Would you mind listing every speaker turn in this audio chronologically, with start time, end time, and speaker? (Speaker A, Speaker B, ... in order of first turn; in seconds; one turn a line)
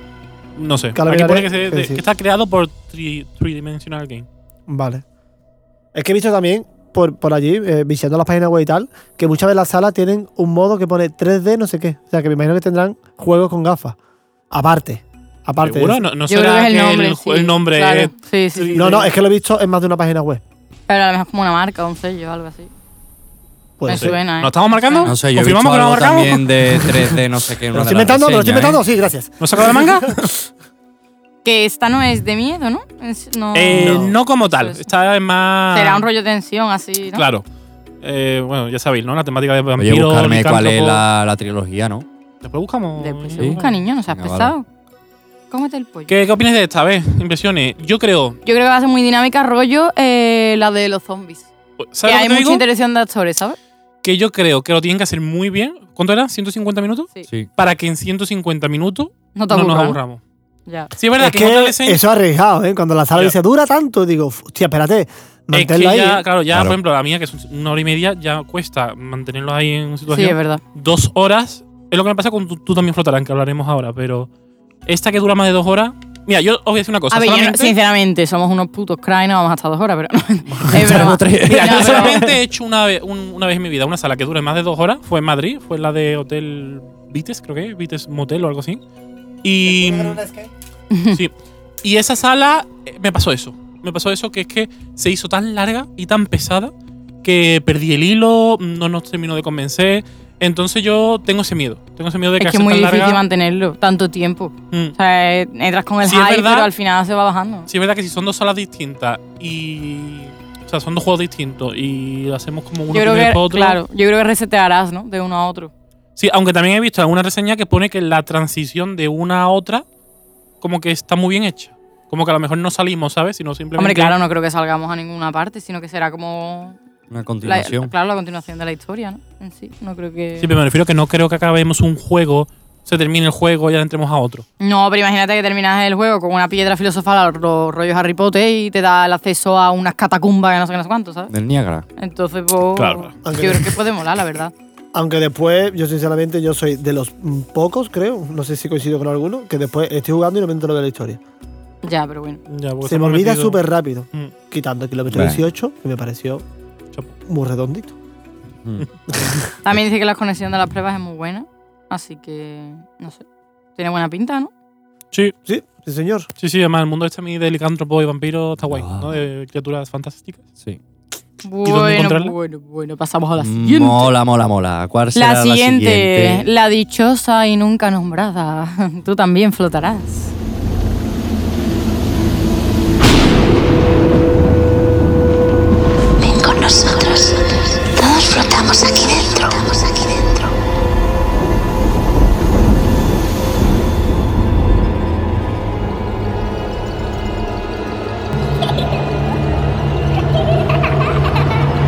Speaker A: 0.6-4.3
Speaker B: 0.9-2.0
Speaker B: 4.7-5.0
Speaker B: 5.9-13.9
Speaker B: 14.5-16.0
Speaker A: 15.6-19.0
Speaker C: 16.3-19.1
Speaker B: 18.7-20.4
Speaker C: 20.9-22.7
Speaker B: 23.8-24.1
Speaker C: 23.9-25.1
Speaker A: 23.9-26.9
Speaker D: 25.0-28.8
Speaker B: 27.7-30.3
Speaker A: 29.4-30.3
Speaker C: 31.4-34.8
Speaker A: 33.5-36.1
Speaker B: 33.7-34.1
Speaker C: 35.7-37.2
Speaker A: 37.1-37.4
Speaker A: 38.0-41.0
Speaker D: 39.8-42.0
Speaker A: 42.4-43.8
Speaker C: 43.0-44.6
Speaker D: 43.4-44.5
Speaker C: 45.5-46.1
Speaker A: 46.1-48.4
Speaker C: 48.4-51.5
Speaker A: 51.9-52.6
Speaker C: 52.0-53.6
Speaker A: 54.0-60.2
Speaker C: 59.3-60.0
Speaker C: 60.7-60.9
Speaker A: 61.0-62.0
Speaker B: 61.2-66.2
Speaker A: 65.5-74.3
Speaker D: 66.5-66.8
Speaker C: 70.1-70.6
Speaker A: 74.9-77.7
Speaker C: 77.1-82.2
Speaker D: 80.7-82.3
Speaker A: 80.7-88.8
Speaker A: 89.4-90.2
Speaker B: 89.6-90.5
Speaker C: 90.9-91.2
Speaker A: 91.8-96.7
Speaker A: 97.2-103.2
Speaker C: 102.4-107.7
Speaker A: 106.0-106.7
Speaker A: 107.7-113.8
Speaker C: 112.9-115.7
Speaker A: 116.2-119.8
Speaker A: 120.6-124.2
Speaker C: 123.8-126.8
Speaker D: 127.1-127.9
Speaker C: 127.4-130.5
Speaker A: 130.4-134.4
Speaker C: 134.6-141.3
Speaker D: 141.3-141.8
Speaker C: 142.0-144.5
Speaker A: 142.8-143.1
Speaker B: 143.2-143.8
Speaker B: 144.9-151.2
Speaker C: 151.8-152.4
Speaker A: 152.5-153.6
Speaker B: 152.8-156.4
Speaker D: 155.1-155.4
Speaker B: 157.2-157.9
Speaker B: 159.1-159.4
Speaker C: 159.6-163.2
Speaker C: 163.8-164.5
Speaker B: 165.4-166.3
Speaker A: 166.4-170.4
Speaker D: 168.7-169.1
Speaker C: 171.4-174.1
Speaker A: 171.6-172.3
Speaker D: 173.4-176.5
Speaker C: 175.1-180.3
Speaker E: 186.2-190.5